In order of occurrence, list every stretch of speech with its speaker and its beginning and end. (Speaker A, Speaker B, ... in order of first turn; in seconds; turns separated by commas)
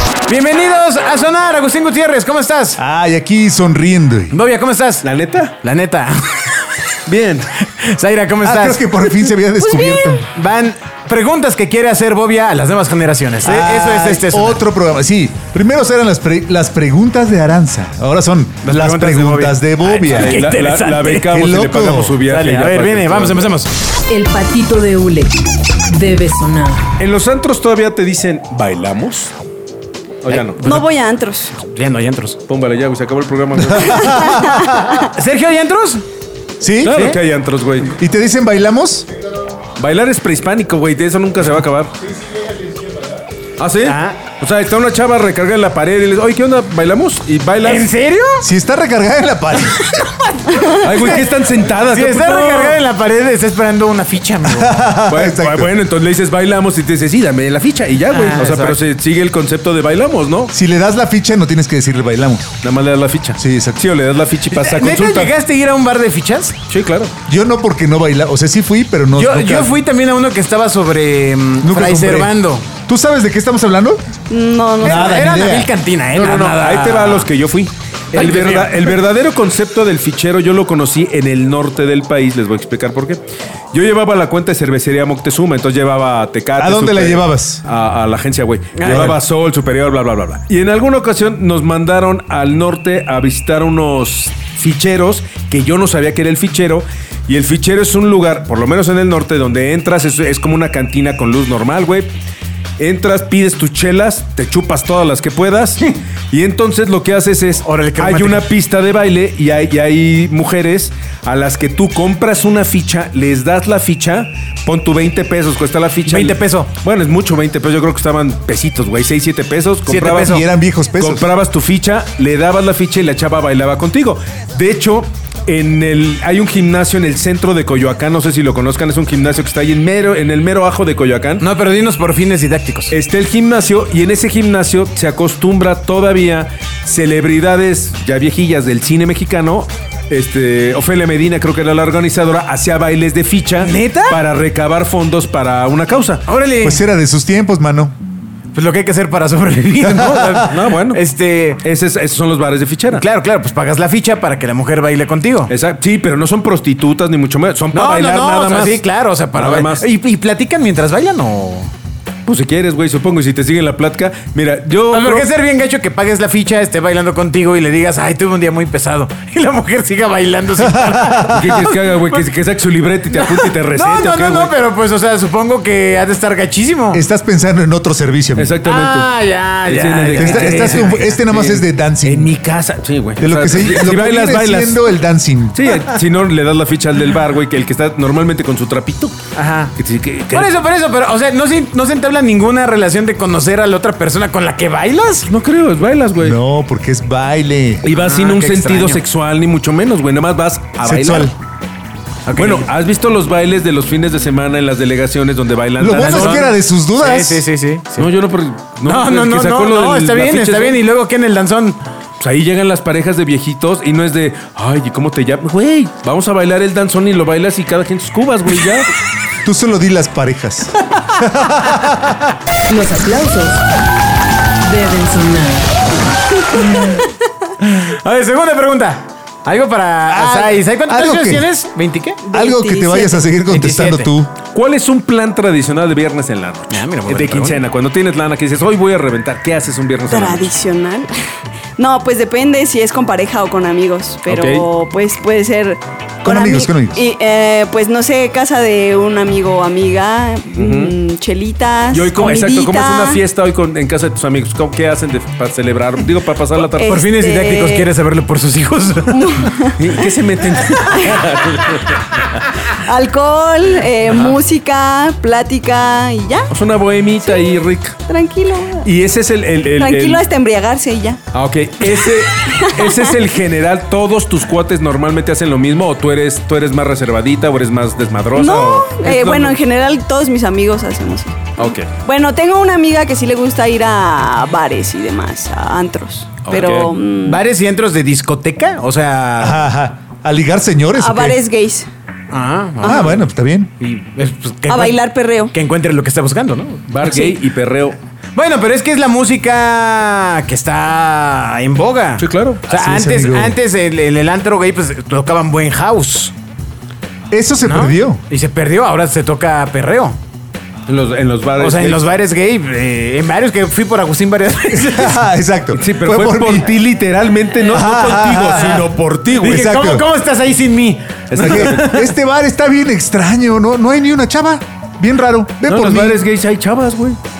Speaker A: 0.2-2.8, Speaker B: 2.8-4.3, Speaker A: 4.3-5.0, Speaker C: 5.0-5.6, Speaker A: 5.6-6.5, Speaker C: 7.0-7.6, Speaker A: 7.6-14.6, Speaker B: 8.4-10.3, Speaker B: 13.4-20.4, Speaker A: 18.6-21.3, Speaker C: 20.1-23.5, Speaker B: 21.2-22.2, Speaker A: 22.2-23.7, Speaker D: 24.1-25.4, Speaker D: 25.9-26.8, Speaker C: 27.0-29.3, Speaker C: 30.2-30.6, Speaker A: 30.3-30.9, Speaker E: 30.6-31.5, Speaker A: 31.5-32.4, Speaker C: 32.5-34.1, Speaker B: 33.6-35.0, Speaker E: 33.9-35.1, Speaker A: 35.0-36.0, Speaker B: 36.6-37.0, Speaker C: 36.8-38.0, Speaker A: 36.8-37.2, Speaker B: 38.0-39.0, Speaker C: 39.8-41.9, Speaker C: 43.6-47.9, Speaker A: 43.8-44.2, Speaker A: 47.6-48.5, Speaker B: 48.4-49.9, Speaker C: 50.6-52.8, Speaker A: 51.9-54.7, Speaker B: 54.4-55.7, Speaker C: 55.1-60.5, Speaker A: 58.1-58.8, Speaker B: 60.5-62.5, Speaker C: 62.6-65.3, Speaker B: 63.4-63.8, Speaker A: 64.5-66.6, Speaker C: 66.7-67.1, Speaker B: 67.3-69.7, Speaker A: 69.1-72.7, Speaker B: 71.6-74.0, Speaker E: 74.3-75.1, Speaker B: 74.8-75.7, Speaker A: 74.8-77.3, Speaker C: 76.1-102.1, Speaker A: 78.1-79.0, Speaker B: 86.6-87.6, Speaker A: 88.8-89.1, Speaker B: 88.8-89.2, Speaker C: 102.8-120.4, Speaker A: 107.6-108.5, Speaker A: 116.0-116.7, Speaker A: 119.9-120.4, Speaker B: 120.2-121.2, Speaker C: 121.0-131.4, Speaker A: 131.4-132.9, Speaker C: 132.9-146.2, Speaker A: 143.6-144.2, Speaker A: 146.3-146.8, Speaker B: 146.6-147.9, Speaker A: 148.5-151.6, Speaker B: 149.8-150.7, Speaker C: 150.4-151.0, Speaker C: 151.6-153.0, Speaker A: 152.9-155.5, Speaker C: 155.5-158.8, Speaker A: 157.7-161.7, Speaker C: 159.3-159.9, Speaker C: 162.2-165.3, Speaker A: 164.9-172.2, Speaker B: 170.6-171.7, Speaker C: 171.3-174.5, Speaker A: 173.1-177.0, Speaker B: 176.9-178.5, Speaker C: 178.3-179.1, Speaker A: 178.6-181.2, Speaker C: 179.6-184.8, Speaker B: 180.1-182.3, Speaker B: 183.2-185.7, Speaker C: 185.5-189.1, Speaker A: 189.3-189.7, Speaker C: 189.8-190.6, Speaker A: 190.3-195.3, Speaker C: 195.2-196.4, Speaker B: 196.2-197.8, Speaker C: 197.8-201.3, Speaker A: 197.9-199.0, Speaker B: 200.8-201.3, Speaker A: 202.3-202.7, Speaker C: 202.3-206.5, Speaker B: 205.8-207.4, Speaker A: 205.9-208.1, Speaker C: 208.0-210.8, Speaker A: 208.8-211.8, Speaker C: 212.2-218.9, Speaker B: 219.4-222.2, Speaker D: 222.7-223.6, Speaker D: 224.6-225.7, Speaker A: 226.5-227.0, Speaker A: 227.6-232.2, Speaker B: 230.1-231.5, Speaker E: 232.2-233.2, Speaker B: 232.3-234.3, Speaker A: 233.4-234.1, Speaker C: 234.5-240.5, Speaker A: 236.7-237.6, Speaker E: 240.1-241.1, Speaker E: 241.8-253.2, Speaker C: 244.3-244.6, Speaker B: 246.2-247.0, Speaker C: 250.5-250.9, Speaker C: 251.9-257.1, Speaker E: 256.7-257.9, Speaker A: 256.9-259.4, Speaker E: 259.1-259.7, Speaker C: 259.8-262.4, Speaker E: 260.9-261.2, Speaker E: 262.8-266.5, Speaker C: 266.5-268.0, Speaker E: 268.1-268.9, Speaker C: 268.8-270.2, Speaker E: 269.8-271.2, Speaker C: 271.3-279.6, Speaker E: 272.0-273.1, Speaker E: 278.4-287.4, Speaker C: 281.6-281.9, Speaker C: 286.4-286.9, Speaker A: 287.2-289.6, Speaker B: 289.4-291.4, Speaker E: 290.9-291.9, Speaker A: 292.3-297.3, Speaker B: 292.8-293.7, Speaker E: 294.7-295.5, Speaker C: 296.9-298.0, Speaker A: 298.3-306.3, Speaker C: 302.2-302.7, Speaker B: 302.7-303.6, Speaker B: 307.3-308.2, Speaker A: 307.6-310.2, Speaker C: 310.9-312.1, Speaker A: 311.6-315.3, Speaker B: 314.7-316.7, Speaker C: 315.7-319.7, Speaker B: 317.7-318.9, Speaker A: 319.4-322.1, Speaker B: 319.4-320.1, Speaker C: 321.3-321.9, Speaker B: 321.3-326.2, Speaker C: 325.6-327.2